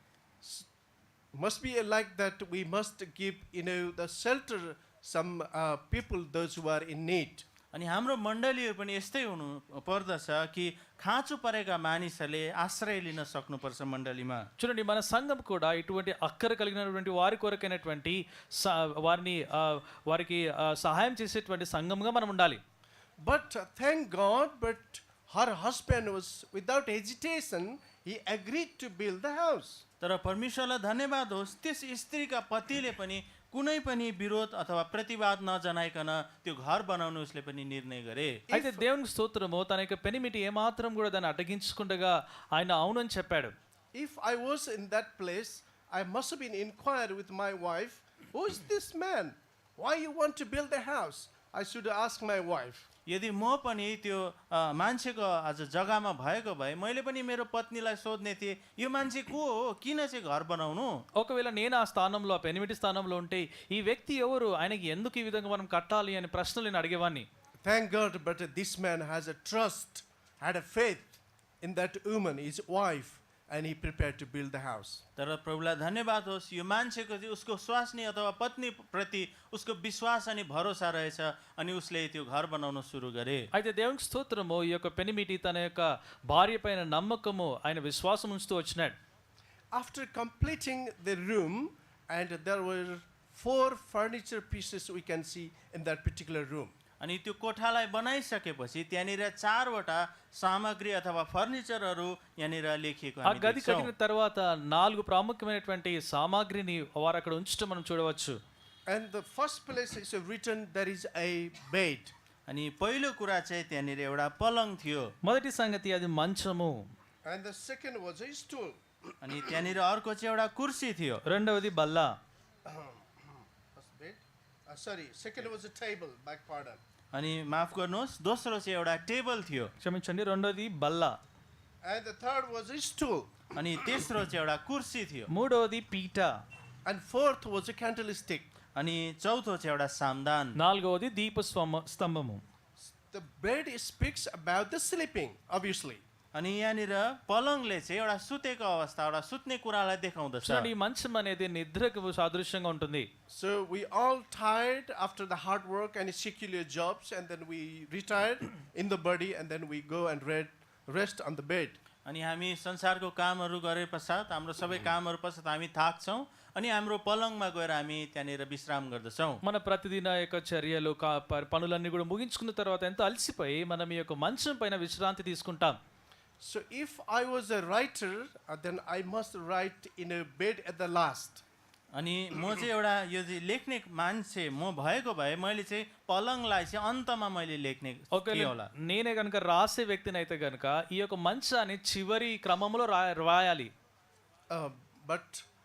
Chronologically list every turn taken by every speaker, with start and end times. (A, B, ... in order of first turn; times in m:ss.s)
0:00.4-0:00.7 A
0:01.3-0:07.4 A
0:07.7-0:14.5 B
0:14.6-0:22.6 C
0:23.2-0:29.8 A
0:30.0-0:38.4 B
0:38.5-0:38.8 A
0:38.5-0:43.5 C
0:43.9-0:52.9 A
0:53.1-1:00.9 B
1:01.2-1:07.3 C
1:07.6-1:15.0 A
1:15.2-1:23.5 B
1:23.5-1:29.0 C
1:29.7-1:36.7 A
1:37.0-1:43.9 B
1:43.2-1:48.4 C
1:48.9-1:52.1 A
1:52.5-1:55.1 B
1:55.2-1:56.8 C
1:57.2-1:58.8 A
1:59.2-2:01.2 B
2:01.2-2:02.1 C
2:02.7-2:06.8 A
2:07.1-2:09.7 B
2:09.8-2:11.2 C
2:11.8-2:13.4 A
2:13.6-2:15.3 B
2:15.3-2:16.4 C
2:16.8-2:18.5 A
2:18.8-2:20.6 B
2:20.6-2:22.4 C
2:22.9-2:26.0 A
2:26.3-2:30.7 B
2:30.4-2:33.1 C
2:33.3-2:41.8 A
2:42.0-2:49.4 B
2:49.4-2:55.8 C
2:56.4-3:01.4 A
3:01.9-3:08.7 B
3:08.1-3:13.7 C
3:14.5-3:15.4 A